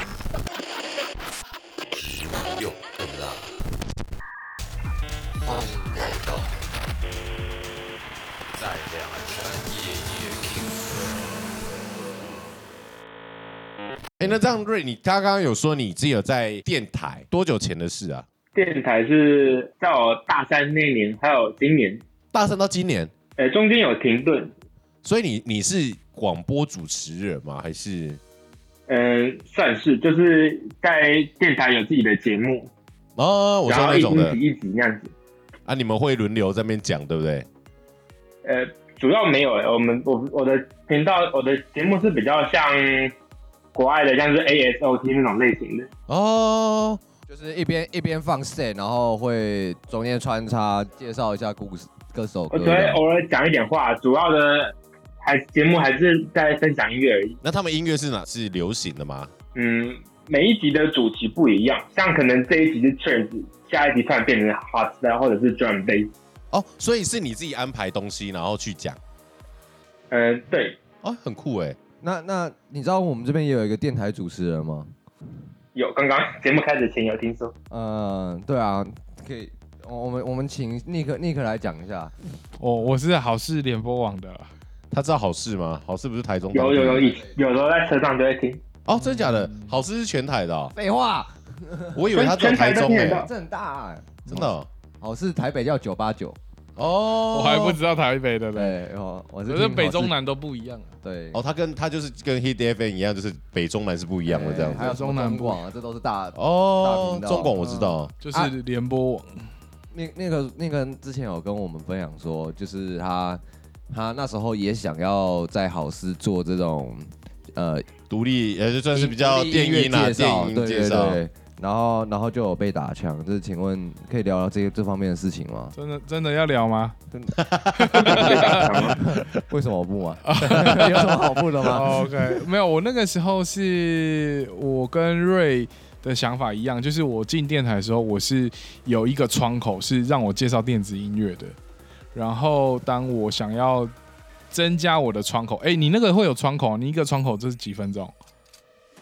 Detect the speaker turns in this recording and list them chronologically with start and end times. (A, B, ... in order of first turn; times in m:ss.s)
0:01.9-0:03.6 A
0:05.4-0:06.6 A
0:08.5-0:11.3 A
0:14.2-0:18.2 B
0:18.5-0:22.0 C
0:22.3-0:23.1 B
0:23.4-0:24.5 C
0:25.0-0:28.2 B
0:28.9-0:32.7 C
0:33.2-0:34.4 B
0:33.7-0:35.1 C
0:35.6-0:37.5 B
0:38.4-0:43.1 C
0:43.7-0:45.9 C
0:46.1-0:47.0 B
0:47.3-0:53.0 D
0:52.5-0:57.4 C
0:57.4-0:59.3 B
0:59.5-1:06.1 C
1:06.5-1:09.0 B
1:10.1-1:10.8 C
1:11.0-1:11.8 B
1:12.0-1:14.9 D
1:15.7-1:17.5 C
1:17.7-1:22.1 D
1:22.6-1:24.5 E
1:24.9-1:27.2 B
1:26.5-1:28.6 C
1:26.6-1:27.4 D
1:28.8-1:30.7 B
1:29.0-1:29.7 E
1:30.7-1:32.1 D
1:31.9-1:33.3 B
1:32.1-1:33.3 C
1:33.2-1:34.5 D
1:34.3-1:34.7 B
1:35.0-1:36.4 D
1:36.8-1:37.8 B
1:37.2-1:38.7 E
1:38.6-1:40.1 D
1:39.5-1:40.9 E
1:41.0-1:41.4 D
1:41.3-1:44.9 B
1:44.2-1:47.7 D
1:44.8-1:45.6 E
1:46.4-1:48.1 B
1:47.6-1:49.5 E
1:49.9-1:57.8 D
1:58.1-2:01.2 B
1:58.9-2:05.7 D
2:05.7-2:07.0 E
2:07.1-2:07.4 D
2:07.4-2:08.5 B
2:07.7-2:08.7 E
2:08.0-2:09.0 C
2:08.1-2:11.9 D
2:10.2-2:11.1 E
2:11.7-2:21.6 E
2:22.1-2:23.9 E
2:24.5-2:28.1 E